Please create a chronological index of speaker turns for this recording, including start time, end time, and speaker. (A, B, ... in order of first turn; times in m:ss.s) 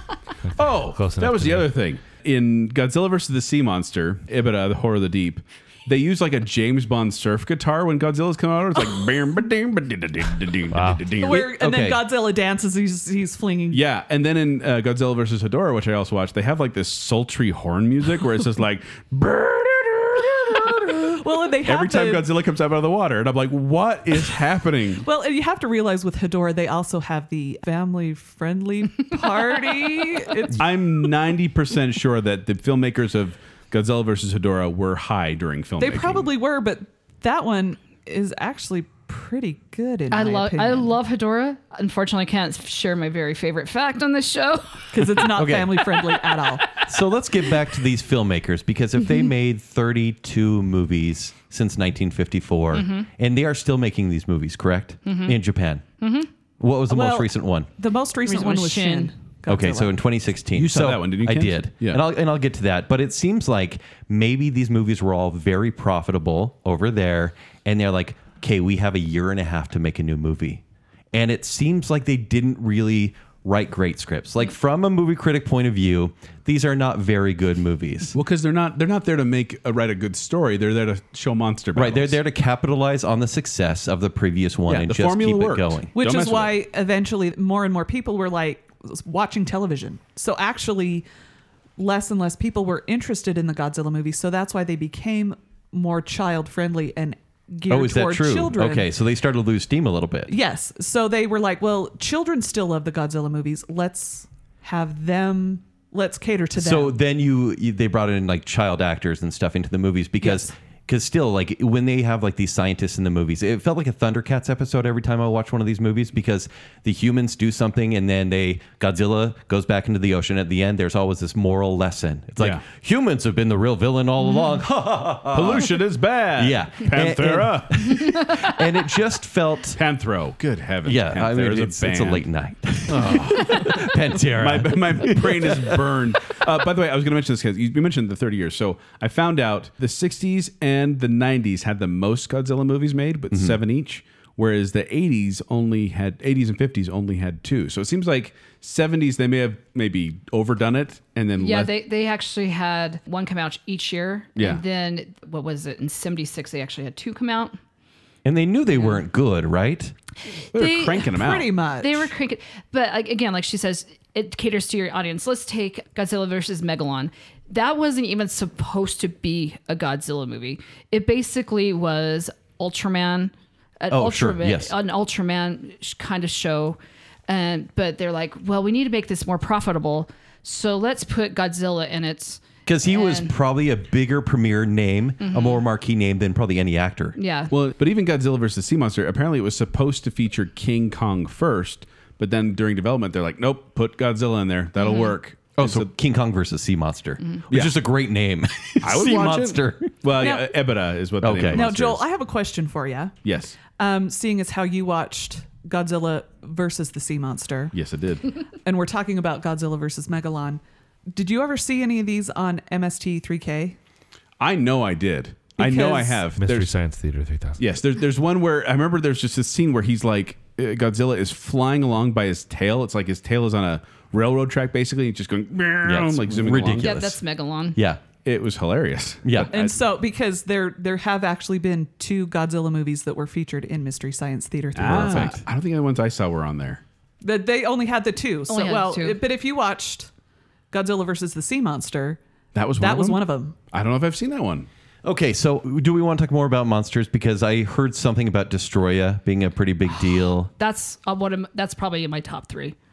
0:00.4-0:01.7 A
0:00.6-0:11.5 B
0:10.7-0:11.1 A
0:11.2-0:13.8 C
0:11.2-0:12.0 D
0:13.7-0:25.0 B
0:21.2-0:22.3 C
0:25.0-0:30.7 C
0:30.5-0:36.3 B
0:35.8-0:41.0 C
0:40.1-0:45.0 E
0:44.9-0:46.7 C
0:45.2-0:45.8 D
0:46.8-0:55.8 D
0:52.7-0:53.1 E
0:55.0-0:55.4 E
0:56.0-0:56.3 E
0:56.6-0:57.7 D
0:56.9-0:59.9 C
0:58.2-0:59.1 E
0:59.5-1:10.6 D
1:00.5-1:02.0 B
1:11.1-1:18.1 D
1:18.1-1:22.2 B
1:21.7-1:25.9 D
1:24.7-1:26.6 B
1:25.9-1:31.0 C
1:31.8-1:38.9 C
1:37.7-1:40.4 D
1:40.3-1:46.9 C
1:46.5-2:05.8 D
1:50.2-1:50.5 C
2:02.4-2:02.6 B
2:05.3-2:08.2 B
2:06.4-2:09.8 D
2:09.7-2:12.2 B
2:10.8-2:15.9 D
2:12.9-2:31.7 B
2:23.3-2:23.6 D
2:31.4-2:37.6 E
2:34.4-2:34.6 B
2:38.2-2:39.9 D
2:40.5-2:41.2 E
2:40.5-2:41.5 B
2:41.1-2:42.1 C
2:41.8-3:03.3 E
2:53.9-2:54.7 D
3:02.6-3:07.2 D
3:05.2-3:05.6 E
3:07.2-3:07.5 E
3:07.5-3:15.9 B
3:14.8-3:15.2 E
3:15.6-3:20.0 D
3:17.5-3:17.8 B
3:18.8-3:22.0 B
3:20.2-3:20.6 C
3:21.2-3:21.7 D
3:21.5-3:27.7 C
3:23.2-3:23.6 B
3:27.7-3:28.3 B
3:28.5-3:33.8 C
3:34.4-3:36.7 B
3:35.6-3:36.2 C
3:36.4-3:37.6 A
3:37.6-3:47.0 B
3:45.8-3:47.2 D
3:46.8-3:47.8 E
3:47.8-3:48.0 D
3:48.1-3:49.8 B
3:49.2-3:49.5 D
3:49.5-3:55.4 C
3:54.7-3:56.8 B
3:54.8-3:55.4 D
3:57.2-4:00.1 C
3:58.5-3:59.2 E
4:00.7-4:02.2 C
4:02.5-4:04.7 B
4:02.8-4:03.6 C
4:05.0-4:10.5 D
4:10.5-4:12.7 E